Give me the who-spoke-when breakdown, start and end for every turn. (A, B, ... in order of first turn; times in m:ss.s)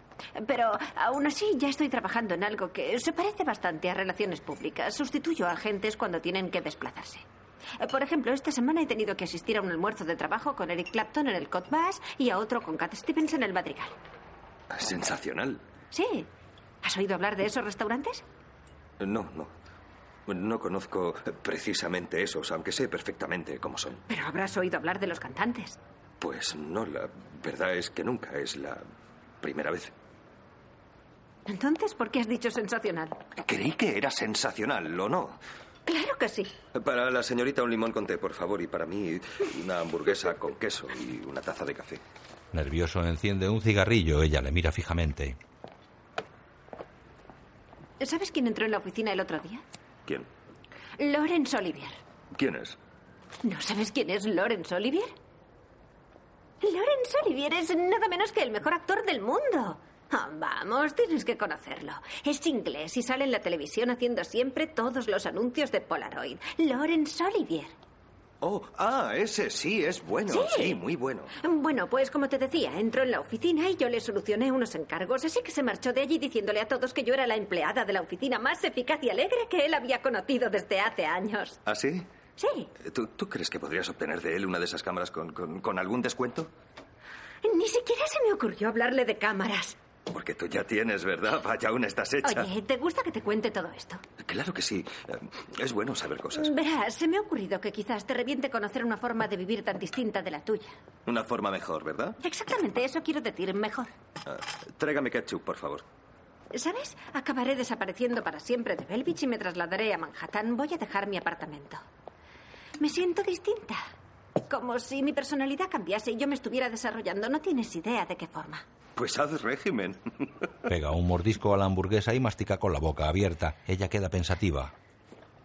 0:00.4-0:07.2 A
0:07.8-0:14.0 A
0:14.7-0:15.6 B
0:15.9-0:16.3 A
0:16.8-0:18.2 A
0:19.0-0:19.5 B
0:20.3-0:24.0 B
0:24.1-0:25.8 A
0:26.2-0:28.8 B
0:29.4-0:29.9 B
0:31.5-0:33.2 A
0:33.4-0:35.4 B
0:35.9-0:36.5 A
0:36.7-0:42.0 B
0:42.5-0:45.4 C
0:48.0-0:49.6 A
0:51.0-0:52.0 A
0:52.3-0:52.8 B
0:53.4-0:55.1 A
0:56.6-1:07.7 A
1:08.4-1:11.3 B
1:10.3-1:10.8 A
1:11.4-1:21.6 A
1:21.7-1:22.1 B
1:22.4-1:22.7 A
1:22.8-1:26.5 B
1:27.4-1:29.8 A
1:30.1-1:32.5 B
1:32.2-1:34.0 A
1:34.2-1:36.5 B
1:36.3-1:40.7 A
1:41.1-1:42.2 B
1:42.2-1:43.9 A
1:44.3-1:45.8 B
1:46.5-1:51.8 A
1:52.8-1:53.9 A
1:54.5-1:58.6 A
1:59.0-2:00.3 B
2:00.7-2:04.7 C